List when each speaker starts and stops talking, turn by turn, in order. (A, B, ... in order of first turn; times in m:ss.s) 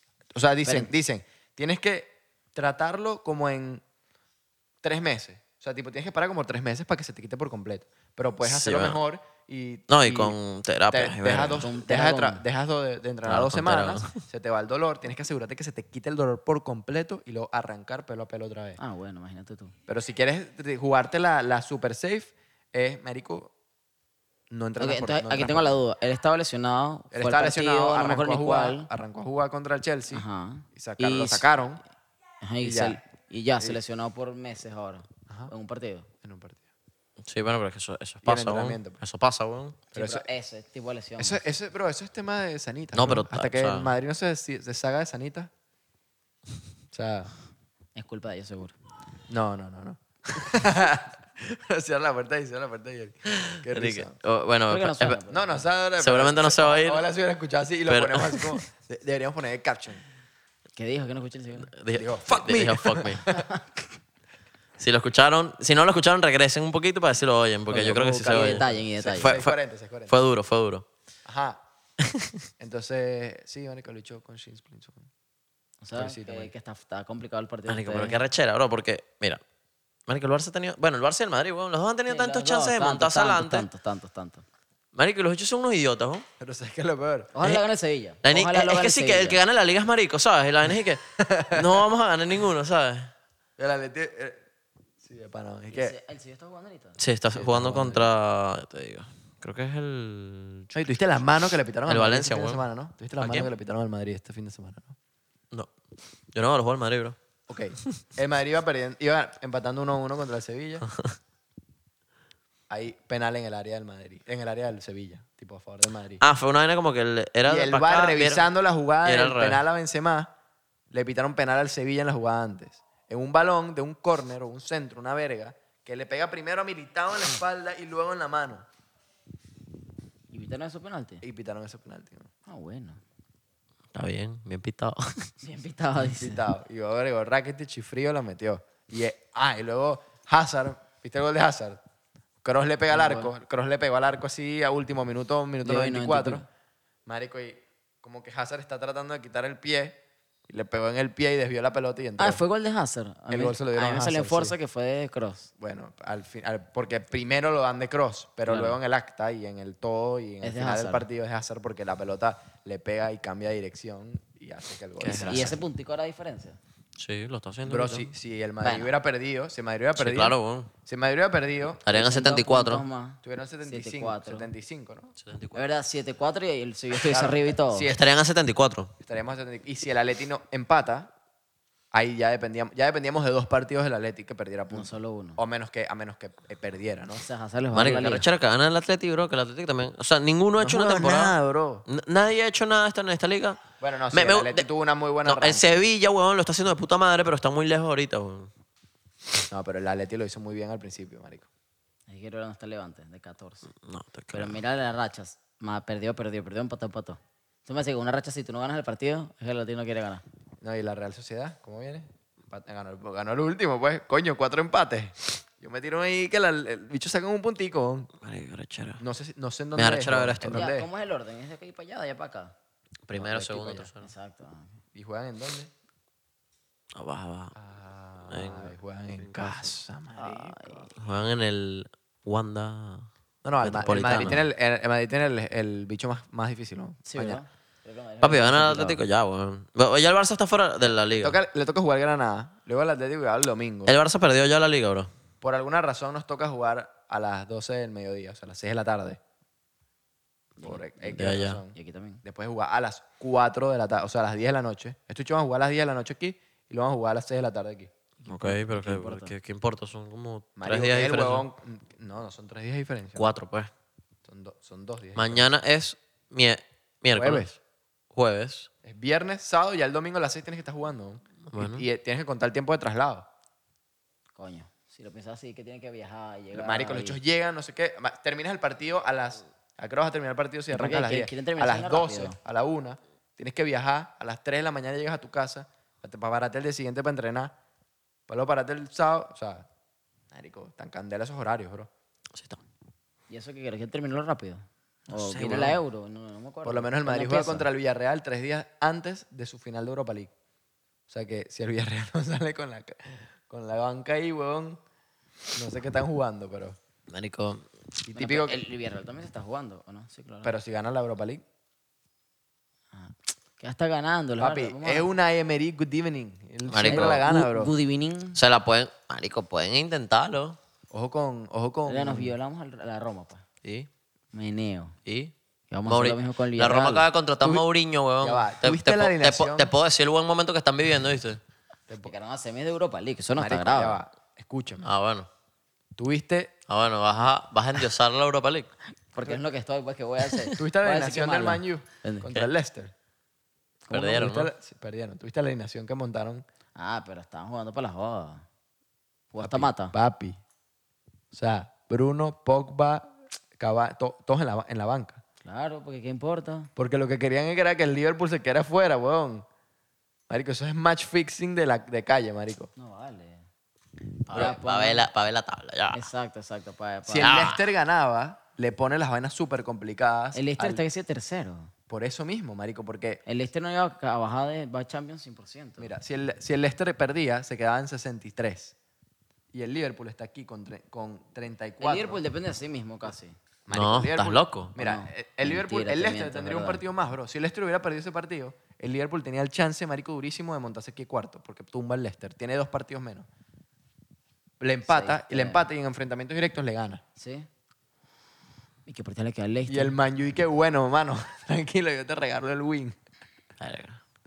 0:00.3-0:03.8 A
0:00.6-0:00.9 B
0:04.8-0:10.4 A
0:08.4-0:09.0 C
0:09.9-0:11.7 C
0:10.9-0:18.8 A
0:11.6-0:12.4 B
0:13.2-0:14.2 C
0:18.8-0:19.7 B
0:19.9-0:23.5 A
0:24.5-0:25.8 A
0:24.8-0:28.9 B
0:27.1-0:31.8 A
0:30.1-0:31.5 B
0:32.4-0:36.1 B
0:32.6-0:33.0 A
0:36.2-0:36.6 A
0:37.2-0:39.8 C
0:38.2-0:39.0 A
0:39.9-0:41.4 B
0:39.9-0:40.3 A
0:41.2-0:45.5 A
0:42.9-0:44.0 C
0:46.9-0:47.3 A
0:48.0-0:48.8 B
0:49.3-0:54.2 A
0:53.3-0:55.2 C
0:54.7-0:55.6 B
0:55.3-1:00.0 A
0:56.0-0:57.0 C
0:57.9-0:58.6 C
1:00.8-1:01.7 B
1:01.7-1:03.2 C
1:01.9-1:03.5 A
1:03.3-1:03.7 B
1:04.8-1:09.6 C
1:07.7-1:09.4 B
1:07.8-1:10.2 A
1:10.1-1:10.9 C
1:11.2-1:11.6 A
1:12.0-1:12.4 C
1:12.6-1:15.1 A
1:15.8-1:18.2 B
1:16.0-1:16.5 A
1:17.7-1:19.4 C
1:20.1-1:23.7 C
1:22.1-1:24.4 B
1:24.9-1:26.2 C
1:26.4-1:27.3 A
1:27.4-1:29.4 B
1:28.2-1:33.1 C
1:31.2-1:31.9 A
1:33.6-1:34.4 A
1:35.0-1:36.0 A
1:35.7-1:37.0 B
1:37.0-1:41.1 C
1:37.3-1:38.1 A
1:40.7-1:45.0 A
1:41.9-1:42.7 C
1:43.2-1:43.5 C
1:46.3-1:47.2 C
1:47.5-1:50.9 A
1:52.7-1:56.2 A
1:56.2-1:58.5 C
1:57.4-2:00.3 A
1:59.0-1:59.6 C
2:00.9-2:08.7 A
2:10.3-2:11.2 B
2:11.2-2:12.3 A
2:12.5-2:13.0 B
2:13.9-2:15.3 C
2:15.4-2:16.4 B
2:16.0-2:21.8 A
2:22.4-2:26.4 A
2:22.9-2:23.3 B
2:25.6-2:26.4 B
2:27.1-2:32.4 A
2:32.2-2:35.5 B
2:33.3-2:34.6 A
2:35.6-2:45.6 A
2:38.5-2:38.8 B
2:40.4-2:41.1 B
2:45.0-2:45.6 C
2:45.2-2:46.6 B
2:47.0-2:48.1 C
2:47.7-2:51.9 A
2:48.6-2:48.9 B
2:50.0-2:50.7 C
2:51.8-2:52.8 C
2:51.9-2:54.5 B
2:53.2-2:55.1 A
2:55.2-2:55.7 C
2:55.5-2:57.9 B
2:57.1-2:58.0 A
2:57.8-2:58.9 C
2:59.0-3:01.1 A
3:01.9-3:07.2 A
3:04.7-3:05.4 B
3:07.2-3:08.3 B
3:07.7-3:11.4 C
3:10.6-3:11.9 A
3:11.9-3:14.7 C
3:13.8-3:15.8 A
3:15.2-3:18.5 C
3:19.5-3:21.5 A
3:22.1-3:23.7 B
3:23.7-3:24.6 C
3:24.3-3:30.2 B
3:30.6-3:38.1 A
3:38.2-3:39.0 C
3:39.0-3:40.9 A
3:39.8-3:40.7 C
3:40.5-3:42.5 B
3:43.1-3:44.1 C
3:43.2-3:43.9 A
3:44.0-3:44.8 B
3:44.9-3:45.7 A
3:47.0-3:47.6 C
3:47.6-3:50.9 A
3:48.3-3:49.7 C
3:50.1-3:50.9 B
3:51.0-3:53.1 C
3:53.4-3:57.4 A
3:53.6-3:54.5 C
3:57.0-3:59.0 B
3:58.2-4:01.4 C
4:01.2-4:04.0 A
4:03.9-4:05.1 C
4:05.4-4:09.2 A
4:10.6-4:10.8 B
4:10.6-4:17.9 A
4:11.0-4:11.6 C
4:11.7-4:12.2 B
4:18.2-4:19.3 B
4:18.3-4:21.5 C
4:20.6-4:23.3 A
4:23.2-4:23.7 C
4:24.2-4:25.5 A
4:25.2-4:27.6 C
4:27.2-4:27.5 A
4:28.1-4:28.7 C
4:28.8-4:33.3 A
4:31.5-4:31.9 C
4:34.4-4:37.2 B
4:36.5-4:47.5 A
4:40.7-4:42.4 B
4:48.3-4:49.7 A
4:50.3-4:51.9 A
4:52.3-4:52.6 C
4:53.3-4:57.7 B
4:55.1-4:55.8 C
4:56.6-5:00.3 A
5:01.1-5:04.8 A
5:05.6-5:06.8 A
5:07.1-5:07.7 C
5:08.0-5:08.6 A
5:08.1-5:10.5 B
5:10.4-5:11.4 A
5:12.9-5:15.1 B
5:14.4-5:17.7 A
5:16.7-5:17.2 C
5:16.8-5:18.4 B
5:18.4-5:20.6 C
5:20.9-5:22.4 A
5:21.9-5:23.4 B
5:24.3-5:25.0 B
5:25.1-5:25.3 C
5:25.7-5:27.1 B
5:25.9-5:31.4 C
5:28.2-5:29.7 A
5:31.9-5:32.1 A
5:32.0-5:34.0 B
5:33.4-5:34.9 A
5:34.8-5:35.3 C
5:36.0-5:36.5 A
5:36.7-5:38.7 C
5:39.1-5:42.3 B
5:40.3-5:40.5 C
5:40.6-5:42.9 A
5:43.9-5:44.3 B
5:43.9-5:44.5 C
5:44.1-5:46.4 A
5:46.8-5:48.4 B
5:49.3-5:49.9 B
5:49.4-5:50.4 A
5:51.3-5:55.2 A
5:55.4-5:56.7 B
5:56.8-5:59.4 A
6:00.3-6:02.7 A
6:02.8-6:03.5 B
6:04.3-6:05.1 B
6:04.3-6:06.1 C
6:05.9-6:07.5 B
6:07.1-6:10.8 A
6:07.2-6:07.6 C
6:10.3-6:11.7 B
6:11.9-6:13.2 A
6:13.3-6:15.9 B
6:15.8-6:18.8 A
6:19.5-6:22.2 A
6:21.8-6:23.4 B
6:23.7-6:33.3 A
6:23.7-6:24.8 C
6:24.8-6:26.8 B
6:34.6-6:37.0 A
6:34.9-6:35.7 B
6:37.2-6:37.5 B
6:38.9-6:40.0 B
6:39.7-6:43.0 A
6:43.6-6:44.0 C